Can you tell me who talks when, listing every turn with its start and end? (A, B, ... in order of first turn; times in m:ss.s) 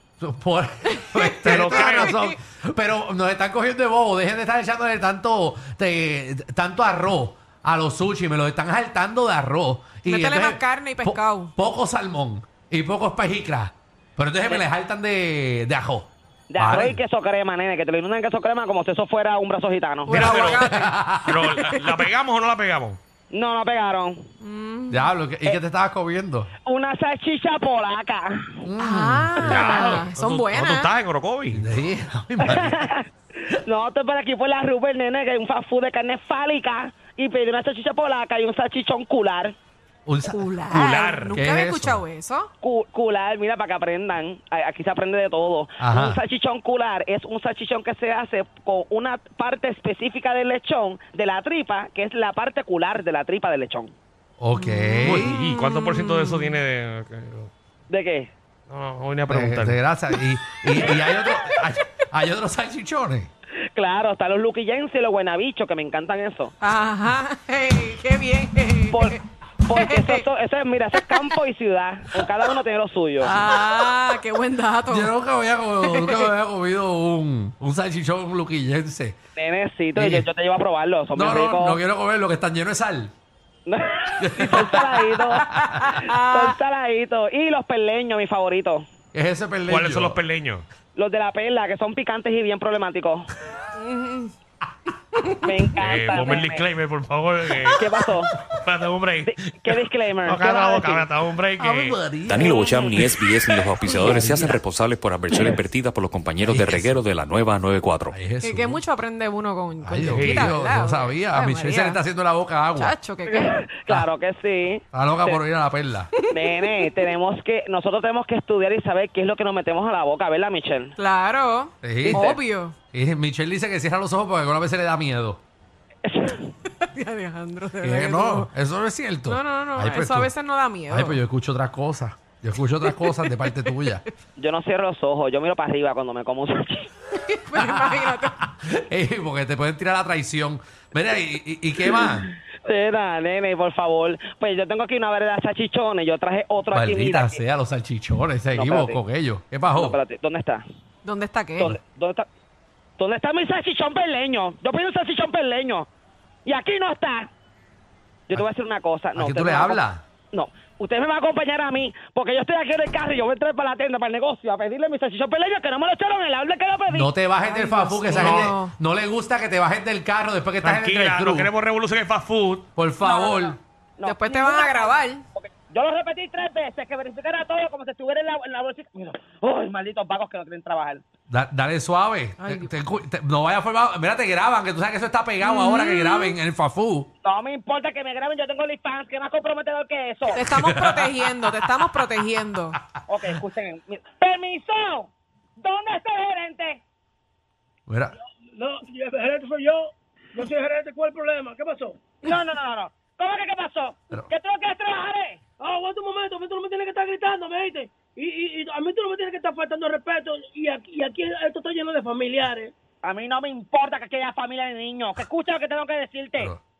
0:00.2-0:17.0 A
0:01.0-0:02.3 B
0:01.4-0:02.1 C
0:10.0-0:11.5 B
0:16.5-0:20.6 D
0:20.1-0:22.0 B
0:20.1-0:23.0 C
0:20.1-0:21.3 A
0:23.3-0:24.3 D
0:24.4-0:25.1 B
0:24.9-0:26.5 A
0:26.6-0:28.6 D
0:28.6-0:30.1 A
0:28.8-0:30.9 B
0:29.4-0:31.6 C
0:31.5-0:32.9 A
0:32.4-0:39.6 D
0:40.0-0:40.4 A
0:40.2-0:42.5 B
0:40.7-0:41.4 C
0:41.3-0:42.0 A
0:42.6-0:53.9 D
0:45.8-0:46.2 A
0:54.4-0:55.4 A
0:54.5-0:56.6 B
0:55.0-0:57.5 C
0:57.9-0:58.3 D
0:58.7-0:59.8 C
0:59.3-1:03.3 A
1:00.8-1:01.4 D
1:03.7-1:06.5 D
1:06.6-1:09.2 B
1:08.9-1:13.4 D
1:09.7-1:10.2 B
1:11.0-1:11.4 B
1:13.2-1:15.1 B
1:14.9-1:19.2 A
1:15.8-1:16.3 B
1:19.4-1:21.8 D
1:19.9-1:20.3 A
1:21.1-1:23.1 A
1:23.6-1:28.8 D
1:24.2-1:25.9 A
1:25.6-1:26.6 B
1:29.1-1:30.2 A
1:29.7-1:30.6 C
1:30.9-1:33.3 D
1:33.8-1:34.3 B
1:35.1-1:36.4 B
1:35.4-1:36.7 D
1:35.8-1:37.9 C
1:37.8-1:38.3 D
1:38.5-1:39.4 C
1:39.2-1:41.1 D
1:40.2-1:42.0 C
1:41.6-1:43.2 A
1:42.3-1:48.2 E
1:42.4-1:43.2 D
1:43.8-1:44.6 A
1:46.4-1:47.0 A
1:48.1-1:48.8 A
1:48.4-1:52.0 B
1:49.8-1:52.9 A
1:50.1-1:50.5 C
1:52.8-1:53.5 B
1:53.3-1:55.4 D
1:54.9-1:56.1 A
1:56.2-1:56.9 B
1:56.3-2:01.0 D
2:01.0-2:02.8 B
2:01.8-2:02.4 A
2:02.0-2:02.4 D
2:02.9-2:05.4 A
2:06.1-2:06.5 D
2:06.8-2:08.5 B
2:07.8-2:10.3 A
2:09.2-2:11.2 B
2:10.9-2:14.0 A
2:12.8-2:14.0 B
2:14.4-2:16.9 D
2:17.1-2:18.4 B
2:17.5-2:22.3 A
2:22.6-2:27.4 D
2:26.7-2:30.0 A
2:28.5-2:29.0 D
2:29.7-2:30.6 D
2:31.0-2:31.7 B
2:31.6-2:32.2 D
2:33.0-2:35.9 D
2:36.4-2:37.3 D
2:38.3-2:47.1 D
2:39.2-2:40.0 A
2:46.9-2:51.5 A
2:47.4-2:48.7 B
2:48.1-2:48.5 C
2:50.6-2:52.7 C
2:52.8-2:53.6 A
2:53.0-2:53.3 B
2:54.0-3:01.0 D
2:54.0-2:55.2 B
3:01.3-3:07.1 A
3:02.4-3:02.7 B
3:05.4-3:06.4 B
3:07.2-3:10.4 D
3:10.3-3:12.8 B
3:10.4-3:11.7 A
3:13.1-3:16.8 D
3:17.9-3:18.1 A
3:18.6-3:22.0 F
3:22.2-3:25.4 D
3:25.6-3:32.7 F
3:33.0-3:36.5 D